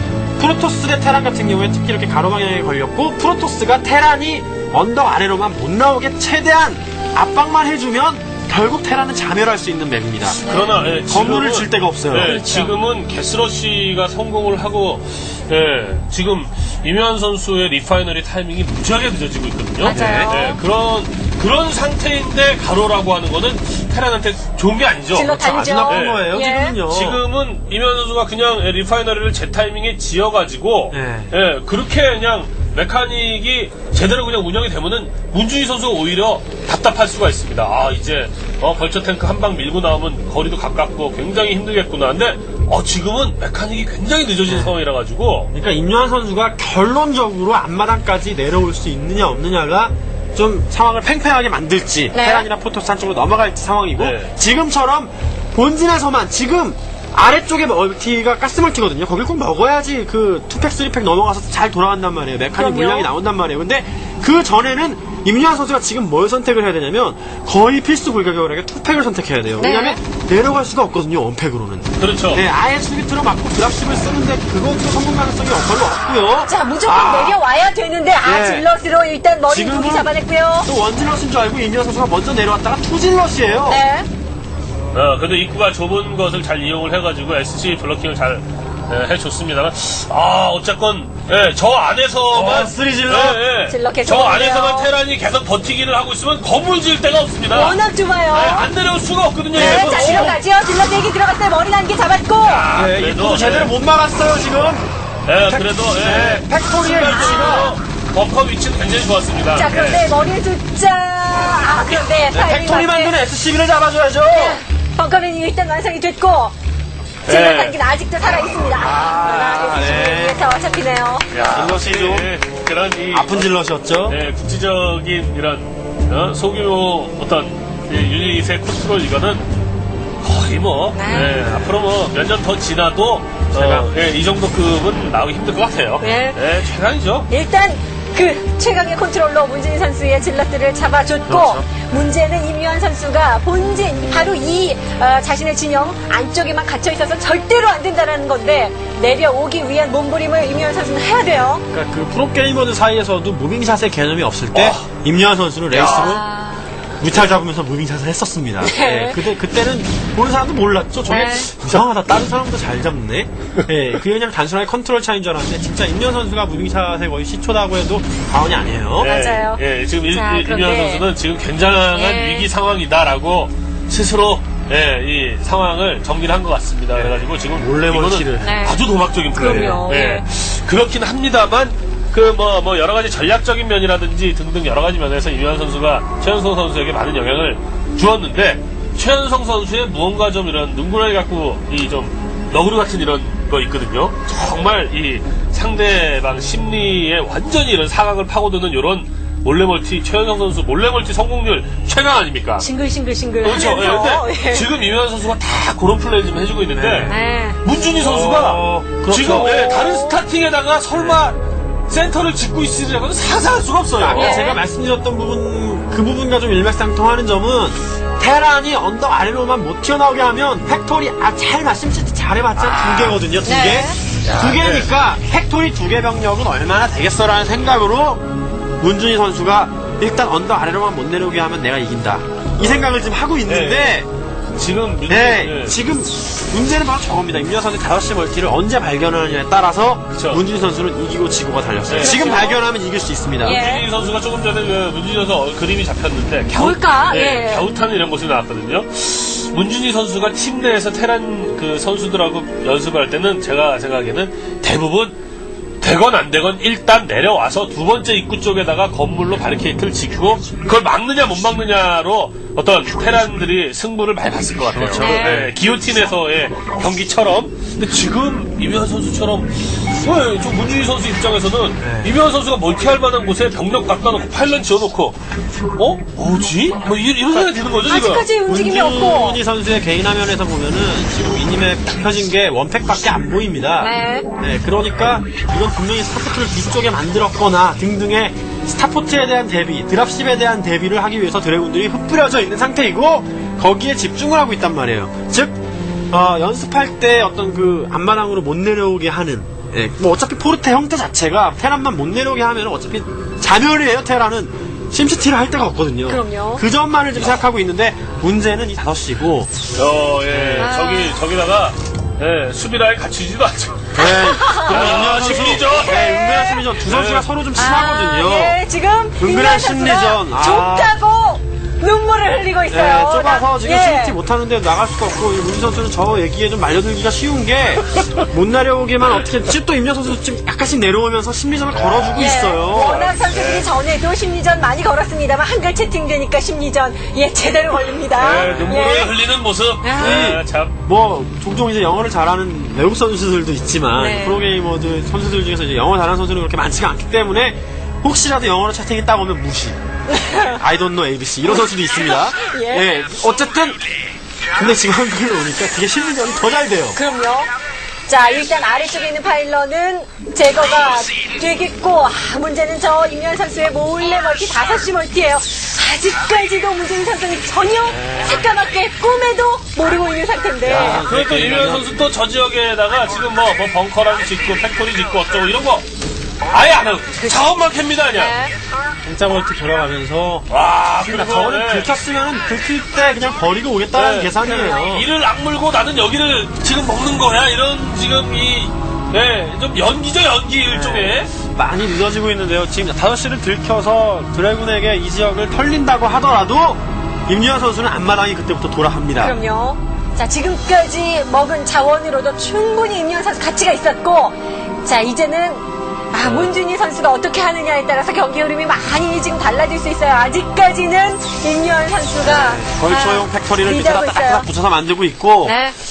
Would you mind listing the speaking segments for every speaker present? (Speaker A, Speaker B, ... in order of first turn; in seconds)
Speaker A: 0.4-10.4, 11.0-12.4, 19.9-20.3, 25.2-27.2, 30.9-31.3, 44.5-44.8, 45.5-77.4, 78.2-78.7, 79.5-83.8, 92.3-93.4, 99.5-100.4, 102.7-104.9, 105.4-107.8, 112.2-114.6, 118.8-120.4, 121.5-122.3, 123.1-124.2, 133.5-133.9, 141.3-141.6, 151.7-156.2, 157.0-169.1, 176.9-178.6, 206.8-207.2, 208.0-209.7, 214.0-228.2, 228.8-234.1, 235.1-243.6, 264.7-265.6, 271.8-272.2, 278.5-295.6, 296.1-309.5, 310.3-310.7, 313.9-318.6, 319.2-320.9, 322.7-333.1, 338.3-338.9, 340.0-349.8, 350.6-353.8, 354.6-357.0, 368.1-368.4, 370.6-371.9, 379.1-380.5, 381.0-385.1, 390.7-399.4, 412.2-415.6
Speaker B: 10.3-25.3, 25.9-45.5, 54.0-54.3, 72.0-72.4, 84.9-100.4, 102.4-103.7, 105.3-110.1, 117.3-117.8, 121.3-123.5, 124.0-129.5, 130.2-137.3, 154.5-154.9, 155.7-156.2, 169.0-202.7, 203.4-214.4, 222.6-223.2, 224.2-224.9, 232.6-232.9, 233.5-234.1, 234.6-235.8, 240.1-240.4, 241.9-242.4, 243.5-255.2, 255.8-275.2, 275.8-278.3, 309.8-314.1, 314.7-316.0, 316.9-317.3, 331.7-333.7, 338.2-340.7, 370.6-375.9, 376.5-378.4, 380.5-382.0, 383.9-391.3, 406.2-406.5
Speaker C: 10.4-10.9, 12.2-12.7, 19.8-20.6, 25.1-26.8, 52.1-52.5, 62.6-63.1, 69.6-70.0, 76.5-80.7, 83.7-84.1, 93.7-94.9, 97.5-98.7, 99.5-102.7, 107.1-107.8, 109.5-113.2, 114.2-116.5, 117.3-121.3, 130.9-131.7, 136.0-136.4, 137.3-151.6, 155.8-156.7, 158.6-159.2, 161.1-161.5, 169.0-171.1, 171.9-172.5, 178.4-178.8, 179.3-180.3, 202.6-204.7, 207.1-207.6, 209.4-210.2, 214.1-214.6, 223.4-224.0, 242.0-242.6, 243.4-243.9, 246.5-247.7, 264.9-265.4, 277.8-279.4, 283.8-284.3, 306.1-306.6, 310.6-311.2, 314.0-315.0, 315.6-316.7, 317.6-324.2, 332.1-339.1, 339.8-340.3, 343.9-344.4, 350.1-350.6, 351.5-352.9, 356.9-357.5, 358.1-371.0, 378.1-378.5, 399.2-414.5, 415.4-415.8